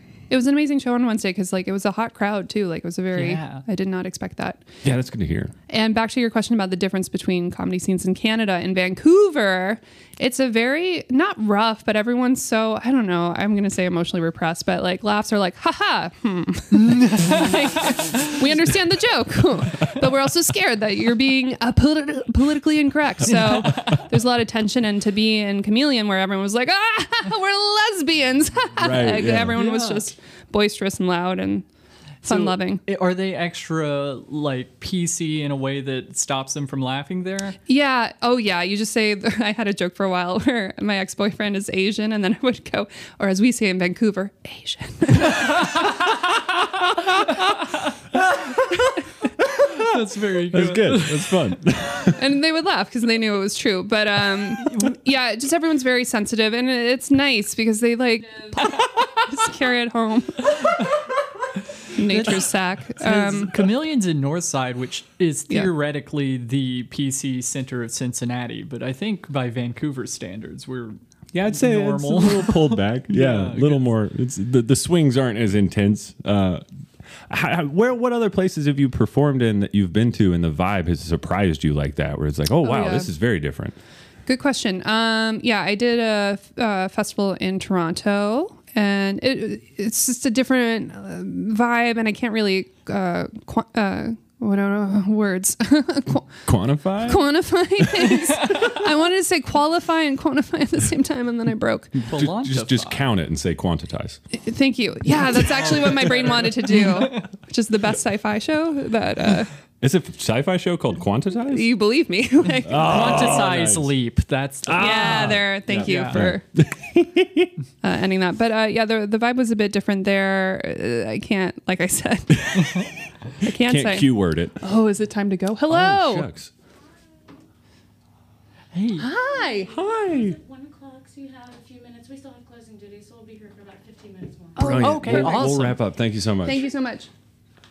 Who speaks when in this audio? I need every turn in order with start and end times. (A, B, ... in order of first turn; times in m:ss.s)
0:00.3-0:04.6 A
0:03.1-0:03.6 B
0:04.8-0:05.5 C
0:05.7-0:31.7 A
0:16.8-0:17.6 B
0:28.8-0:29.6 C
0:29.5-0:30.1 B
0:32.2-0:32.8 A
0:32.2-0:37.6 B
0:37.7-0:45.8 A
0:48.5-0:48.7 C
0:49.6-0:49.9 C
0:49.6-0:51.6 B
0:50.5-0:52.2 C
0:52.1-1:00.7 A
1:02.0-1:03.6 A
1:02.0-1:13.8 B
1:11.3-1:16.6 C
1:17.3-1:23.8 C
1:22.6-1:23.1 A
1:24.3-1:36.4 A
1:36.5-1:37.3 C
1:37.0-1:42.0 A
1:37.8-1:38.2 C
1:42.1-1:43.0 B
1:42.1-1:44.2 C
1:44.3-1:49.5 A
1:45.4-1:47.2 B
1:49.8-1:51.7 C
1:51.5-1:53.4 A
1:52.6-1:53.9 C
1:52.8-1:56.3 B
1:54.6-1:57.5 C
1:54.8-1:56.4 A
1:57.8-2:02.9 A
2:02.4-2:02.7 C
2:03.4-2:06.3 A
2:03.4-2:04.6 C
2:05.7-2:06.5 C
2:08.7-2:09.1 B
2:09.0-2:09.7 A
2:09.2-2:14.8 D
2:09.7-2:10.4 C
2:14.6-2:15.6 A
2:14.6-2:16.7 C
2:14.6-2:15.8 B
2:16.4-2:17.1 A